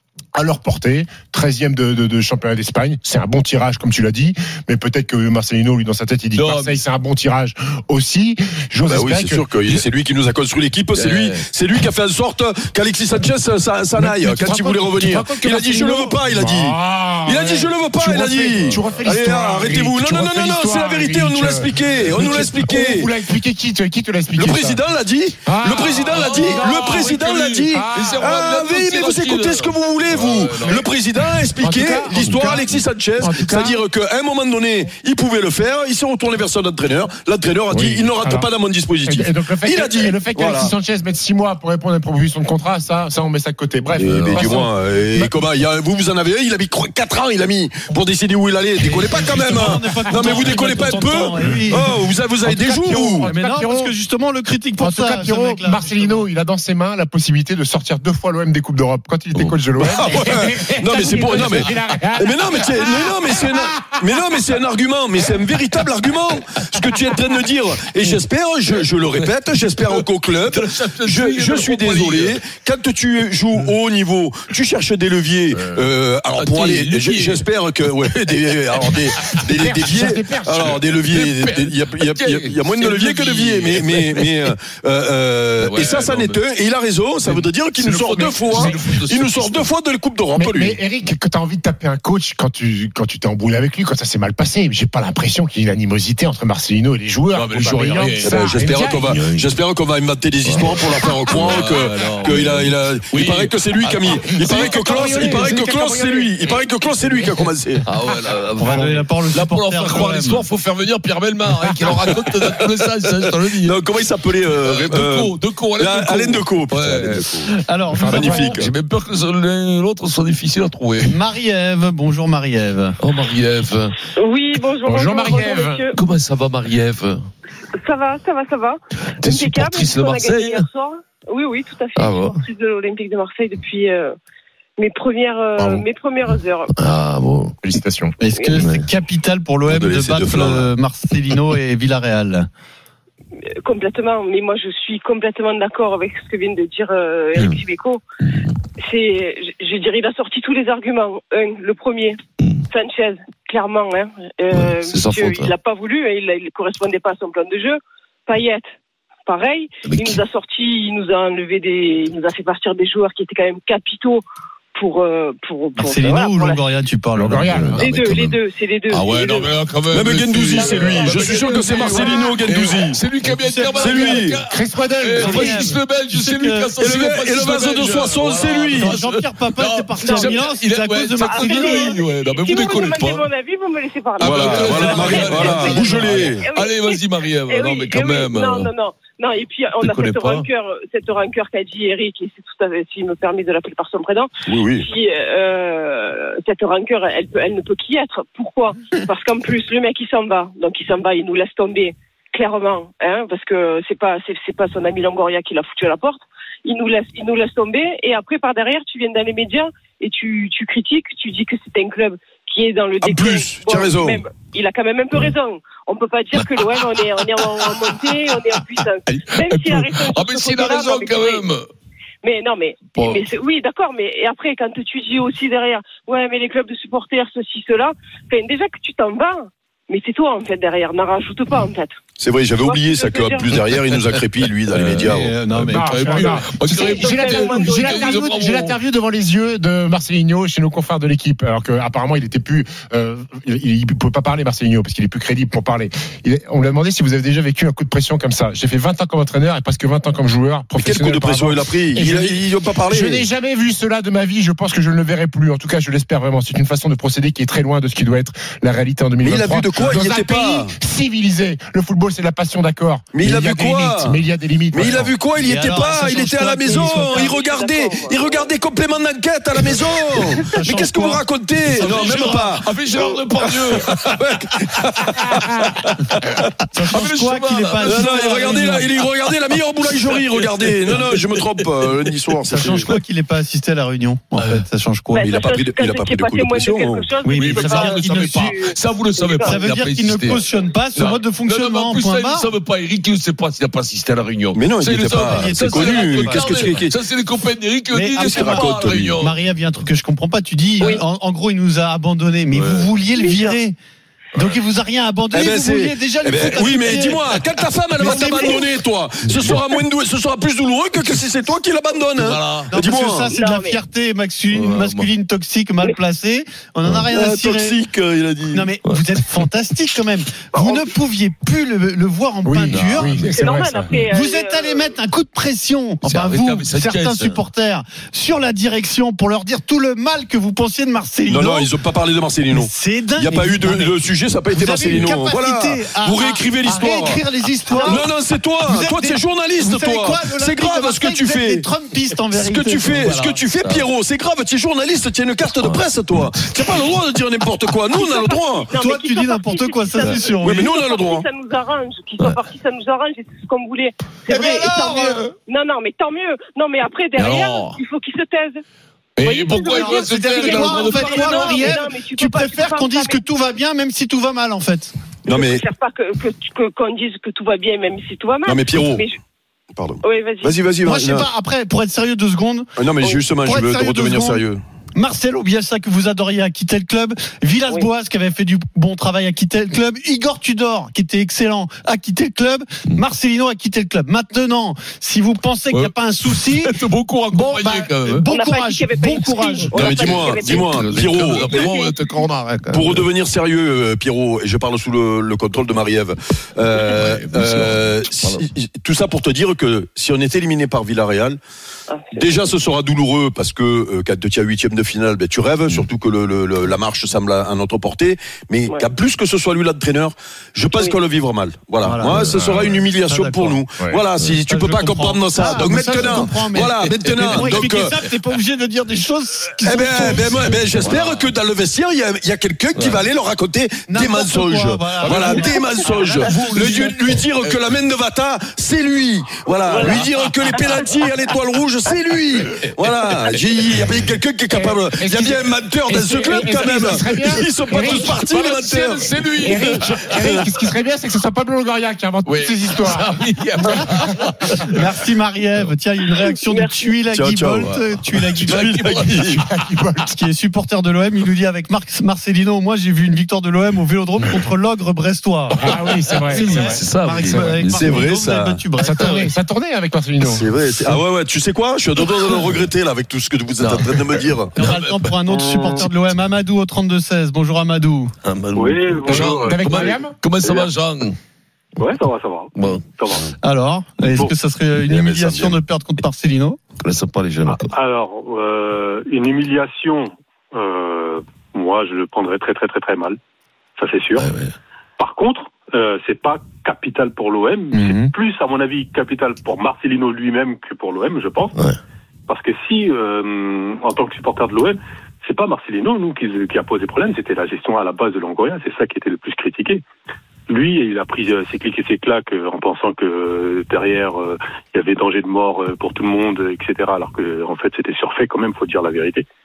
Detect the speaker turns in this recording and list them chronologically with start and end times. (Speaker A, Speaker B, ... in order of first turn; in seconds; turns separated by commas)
Speaker A: 0.3-9.8, Speaker B: 6.4-6.8, Speaker C: 8.9-23.1, Speaker B: 10.9-11.4, Speaker A: 14.0-24.8, Speaker B: 18.6-18.9, Speaker C: 24.4-40.7, Speaker A: 25.4-28.2, Speaker B: 26.1-30.9, Speaker A: 31.6-33.8, Speaker A: 37.7-38.5, Speaker A: 39.0-45.3, Speaker C: 44.0-53.3, Speaker B: 44.0-44.6, Speaker D: 48.8-51.9, Speaker A: 50.2-50.7, Speaker A: 52.4-53.9, Speaker D: 53.2-56.2, Speaker A: 54.8-64.0, Speaker C: 59.8-90.8, Speaker B: 68.8-72.4, Speaker B: 75.5-77.5, Speaker B: 78.8-79.4, Speaker A: 79.5-80.8, Speaker B: 80.9-84.5, Speaker B: 85.6-86.4, Speaker B: 87.2-89.7, Speaker A: 90.3-99.2, Speaker B: 97.3-99.5, Speaker C: 98.2-107.8, Speaker B: 100.4-105.5, Speaker A: 104.3-107.2, Speaker B: 107.9-113.8, Speaker D: 108.6-110.4, Speaker A: 108.6-109.0, Speaker C: 113.6-117.5, Speaker B: 114.5-117.4, Speaker D: 117.5-118.5, Speaker A: 117.9-118.6, Speaker C: 118.1-118.6, Speaker B: 118.3-121.2, Speaker D: 121.0-123.0, Speaker B: 123.0-124.0, Speaker E: 124.1-126.0, Speaker A: 124.8-125.8, Speaker B: 125.9-127.2, Speaker E: 127.8-134.1, Speaker B: 129.2-130.7, Speaker B: 131.9-132.4, Speaker E: 134.8-136.7, Speaker A: 135.6-135.8, Speaker B: 136.8-137.6, Speaker A: 137.6-138.1, Speaker D: 138.2-142.5, Speaker B: 138.6-138.8, Speaker C: 139.7-140.7, Speaker E: 143.6-148.0, Speaker B: 148.2-148.5, Speaker E: 148.8-152.2, Speaker E: 152.7-158.7, Speaker B: 154.5-155.5, Speaker E: 159.2-164.2, Speaker B: 159.8-160.2, Speaker E: 164.7-166.6, Speaker D: 165.8-167.5, Speaker A: 167.1-167.9, Speaker B: 167.5-168.4, Speaker E: 167.8-169.5, Speaker B: 168.9-183.2, Speaker C: 169.9-173.0, Speaker D: 171.2-172.3, Speaker D: 173.2-174.2, Speaker C: 173.8-174.4, Speaker A: 174.5-175.7, Speaker D: 175.2-176.7, Speaker C: 176.8-179.0, Speaker D: 178.7-181.9, Speaker E: 180.0-180.4, Speaker E: 181.2-221.4, Speaker B: 184.2-188.7, Speaker C: 184.2-186.4, Speaker D: 184.7-186.2, Speaker B: 189.8-190.5, Speaker C: 194.5-194.9, Speaker C: 213.0-214.2, Speaker B: 216.4-221.7, Speaker E: 222.2-231.9, Speaker B: 222.9-223.2, Speaker C: 232.2-235.3, Speaker E: 232.6-233.5, Speaker B: 233.6-238.8, Speaker D: 235.0-236.5, Speaker A: 235.7-265.1, Speaker E: 236.7-238.2, Speaker C: 250.8-253.2, Speaker C: 259.2-260.7, Speaker C: 263.1-264.2, Speaker C: 264.7-276.5, Speaker D: 265.4-267.3, Speaker E: 266.8-268.5, Speaker D: 270.5-271.2, Speaker B: 271.7-274.2, Speaker D: 271.8-272.4, Speaker D: 276.7-278.9, Speaker B: 276.9-278.8, Speaker C: 277.8-282.9, Speaker B: 279.9-282.1, Speaker D: 282.5-285.3, Speaker E: 285.1-289.6, Speaker C: 285.2-287.1, Speaker D: 287.2-288.5, Speaker B: 287.3-290.4, Speaker D: 289.4-292.5, Speaker B: 290.9-299.3, Speaker C: 294.5-296.9, Speaker D: 295.1-296.7, Speaker D: 297.9-303.8, Speaker C: 298.2-299.2, Speaker B: 302.5-302.9, Speaker E: 303.1-303.6, Speaker D: 304.3-307.2, Speaker C: 305.3-313.3, Speaker D: 308.0-308.6, Speaker E: 308.1-308.5, Speaker B: 309.3-309.6, Speaker B: 312.1-312.7, Speaker D: 312.7-317.8, Speaker E: 313.3-313.8, Speaker B: 314.5-315.1, Speaker C: 317.1-318.7, Speaker D: 318.5-323.1, Speaker A: 322.4-323.9, Speaker B: 322.7-323.3, Speaker E: 323.3-324.9, Speaker D: 324.1-331.7, Speaker B: 326.0-327.4, Speaker C: 331.3-337.2, Speaker D: 332.5-333.9, Speaker D: 334.5-338.1, Speaker E: 337.7-338.0, Speaker C: 337.7-341.7, Speaker D: 338.6-343.4, Speaker C: 342.3-348.7, Speaker B: 343.6-343.9, Speaker B: 345.6-345.9, Speaker E: 347.9-358.6, Speaker D: 348.7-350.7, Speaker C: 350.4-351.2, Speaker B: 354.3-355.3, Speaker D: 354.4-355.2, Speaker B: 357.1-357.8, Speaker B: 359.2-361.8, Speaker E: 359.2-363.2, Speaker D: 359.7-364.9, Speaker C: 365.2-365.6, Speaker E: 365.3-369.2, Speaker C: 368.4-369.0, Speaker C: 369.7-371.3, Speaker E: 370.0-370.5, Speaker D: 370.8-372.7, Speaker C: 372.8-374.6, Speaker D: 373.4-374.4, Speaker D: 374.9-386.8, Speaker B: 385.7-388.3, Speaker D: 387.3-390.0, Speaker E: 388.3-390.8, Speaker C: 389.7-391.8, Speaker B: 389.9-393.1, Speaker C: 392.7-401.4, Speaker B: 396.7-398.4, Speaker E: 401.9-402.3, Speaker C: 402.1-418.0, Speaker D: 411.8-412.4, Speaker A: 412.2-412.8, Speaker D: 413.0-413.6, Speaker D: 414.5-420.6, Speaker B: 415.9-416.3, Speaker B: 416.8-417.9, Speaker C: 419.6-439.6, Speaker B: 420.1-421.3, Speaker B: 422.7-423.0, Speaker D: 423.9-426.8, Speaker B: 425.0-427.6, Speaker E: 429.7-430.0, Speaker B: 429.7-430.6, Speaker B: 432.8-433.4, Speaker A: 434.5-438.3, Speaker B: 436.4-440.4, Speaker A: 439.3-444.6, Speaker B: 442.2-444.8, Speaker D: 444.7-449.0, Speaker E: 446.4-446.9, Speaker C: 447.1-449.4, Speaker B: 448.4-449.4, Speaker A: 449.3-450.1, Speaker D: 450.0-459.3, Speaker A: 455.6-457.6, Speaker B: 456.3-458.1, Speaker C: 457.7-458.6, Speaker A: 458.8-460.5, Speaker C: 460.2-464.5, Speaker B: 463.6-465.8, Speaker D: 464.5-468.1, Speaker B: 468.2-471.1, Speaker F: 468.5-470.7, Speaker A: 469.0-470.1, Speaker F: 471.8-473.3, Speaker B: 472.6-472.8, Speaker D: 473.4-476.6, Speaker C: 474.8-475.6, Speaker B: 476.8-477.7, Speaker F: 477.5-483.2, Speaker F: 483.8-484.3, Speaker B: 484.1-484.5, Speaker F: 485.0-491.6, Speaker D: 487.7-488.1, Speaker F: 492.3-499.8, Speaker F: 500.5-509.2